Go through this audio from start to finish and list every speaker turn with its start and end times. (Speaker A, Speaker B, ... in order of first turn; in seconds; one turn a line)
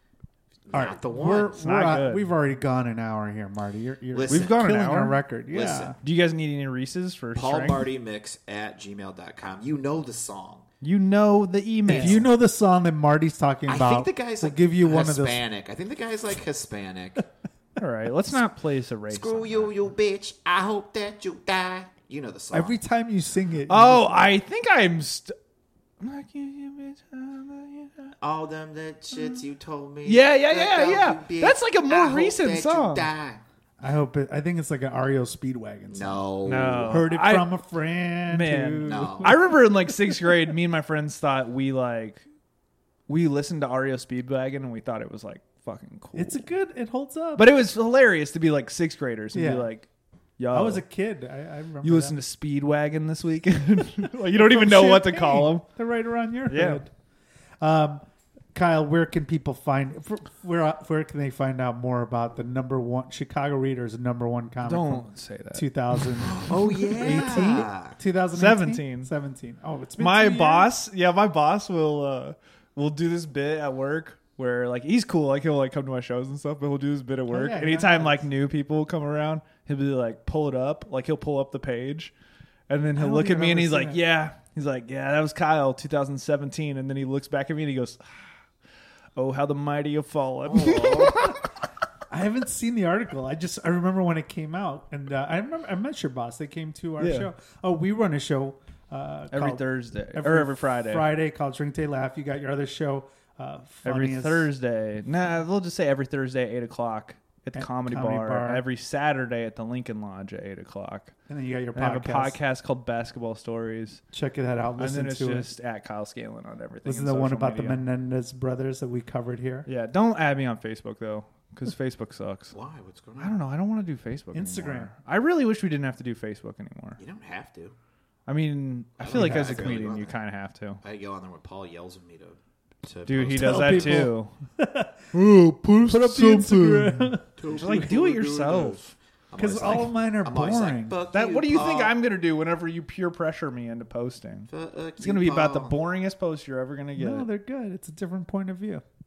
Speaker A: 0.7-1.6
Speaker B: 0.7-6.0
Speaker C: 1.6-2.3
Speaker A: 4.1-4.7
Speaker C: 4.3-5.2
Speaker A: 5.5-6.0
Speaker C: 6.0-7.8
Speaker A: 7.3-10.7
Speaker C: 10.8-12.3
Speaker B: 11.9-15.4
Speaker A: 11.9-12.2
Speaker A: 13.7-17.2
Speaker C: 17.8-19.7
Speaker A: 19.1-22.8
Speaker B: 22.5-24.3
Speaker C: 23.7-25.4
Speaker C: 26.0-28.1
Speaker A: 28.2-33.4
Speaker C: 30.1-33.1
Speaker B: 33.8-40.3
Speaker A: 35.9-37.0
Speaker C: 36.5-37.5
Speaker C: 38.3-42.3
Speaker A: 38.8-39.5
Speaker C: 43.1-46.4
Speaker B: 46.1-47.5
Speaker C: 47.4-49.9
Speaker B: 49.3-49.7
Speaker C: 50.4-50.8
Speaker B: 50.5-52.2
Speaker C: 51.8-55.7
Speaker B: 54.3-56.9
Speaker C: 56.5-56.8
Speaker B: 57.6-70.7
Speaker C: 64.6-66.5
Speaker A: 66.2-68.0
Speaker C: 68.3-69.1
Speaker C: 70.0-82.1
Speaker B: 77.3-78.2
Speaker C: 82.7-88.3
Speaker B: 83.0-84.0
Speaker C: 89.2-91.4
Speaker A: 90.5-91.3
Speaker B: 92.1-104.5
Speaker C: 97.0-97.3
Speaker C: 99.3-101.1
Speaker C: 103.8-111.2
Speaker B: 107.5-108.6
Speaker B: 111.3-112.4
Speaker C: 111.8-114.0
Speaker B: 114.1-115.5
Speaker C: 114.8-117.8
Speaker B: 116.8-119.7
Speaker C: 119.7-122.6
Speaker A: 122.5-123.4
Speaker C: 123.2-127.0
Speaker B: 124.3-124.9
Speaker A: 127.0-127.8
Speaker C: 128.3-130.8
Speaker A: 129.0-130.2
Speaker B: 129.1-129.7
Speaker A: 130.8-134.1
Speaker C: 133.1-134.3
Speaker B: 133.4-135.0
Speaker C: 135.1-138.9
Speaker B: 135.9-137.3
Speaker A: 137.4-142.0
Speaker B: 139.4-141.0
Speaker C: 141.1-147.3
Speaker A: 144.5-145.8
Speaker B: 147.0-148.8